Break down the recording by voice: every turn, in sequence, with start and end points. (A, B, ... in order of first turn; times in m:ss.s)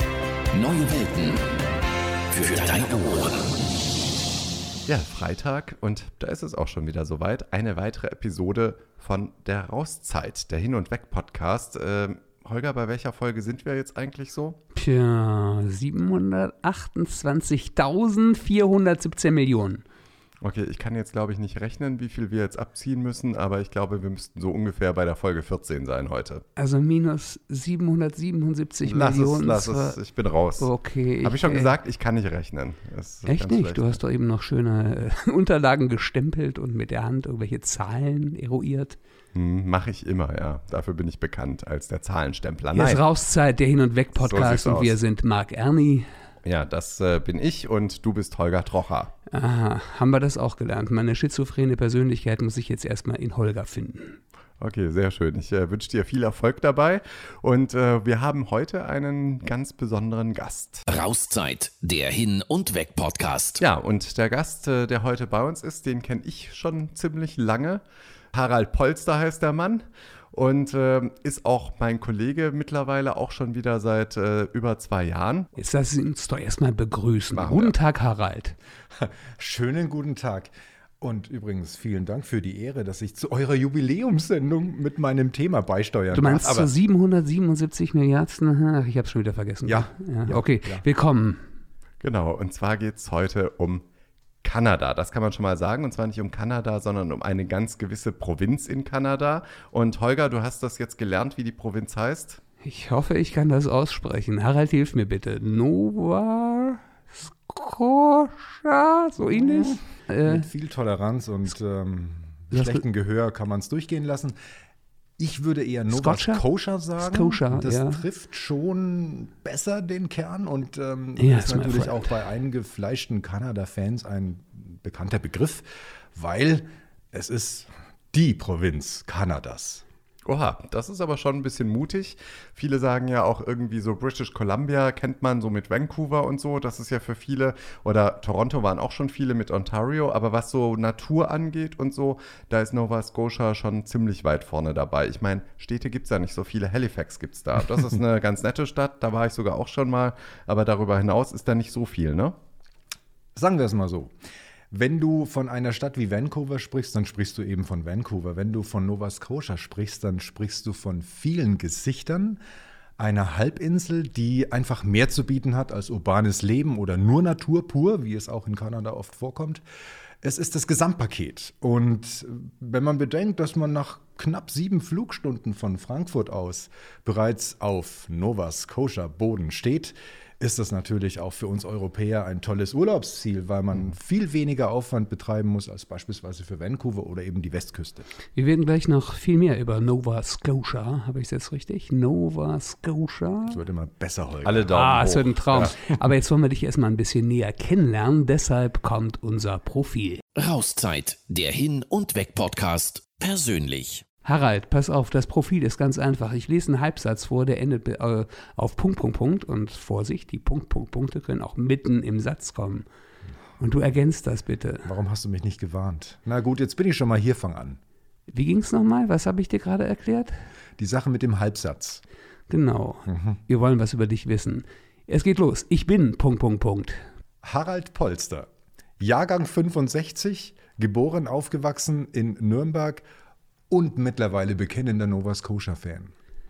0:00.5-0:01.4 A
0:02.3-0:03.5 A
0:04.9-0:14.6 B
0:14.7-0:19.8 C
0:20.4-0:26.4 B
0:26.6-0:30.0 C
0:28.8-0:30.7 B
0:30.6-0:31.7 C
0:31.2-0:34.0 B
0:33.2-0:39.0 C
0:39.3-0:43.0 B
0:42.7-0:46.1 C
0:44.2-0:45.0 B
0:46.4-0:49.1 B
0:49.3-0:54.2 C
0:54.6-1:00.9 B
1:00.9-1:03.6 A
1:03.6-1:07.8 B
1:08.3-1:15.5 B
1:15.6-1:18.6 C
1:17.3-1:17.7 B
1:19.0-1:26.7 D
1:26.1-1:31.4 C
1:29.6-1:30.8 D
1:32.0-1:33.8 B
1:34.4-1:42.4 B
1:42.6-1:50.5 C
1:49.3-1:54.4 D
1:52.5-1:52.8 C
1:55.2-2:09.8 D
1:55.9-1:56.4 C
1:57.0-1:58.0 C
2:01.2-2:02.1 C
2:10.2-2:32.4 B
2:33.4-2:34.1 D
2:34.7-2:42.4 D
2:43.0-2:49.6 D
2:50.2-3:08.1 D
3:08.3-3:13.6 C
3:13.4-3:15.0 D
3:14.4-3:15.7 B
3:14.7-3:20.2 C
3:20.4-3:24.0 A
3:24.2-3:32.8 C
3:33.6-3:34.9 C
3:34.8-3:37.8 D
3:38.3-3:40.4 C
3:40.8-3:42.0 D
3:42.5-3:47.0 C
3:43.1-3:43.4 D
3:47.4-3:48.5 D
3:49.0-3:53.0 D
3:53.7-3:56.1 D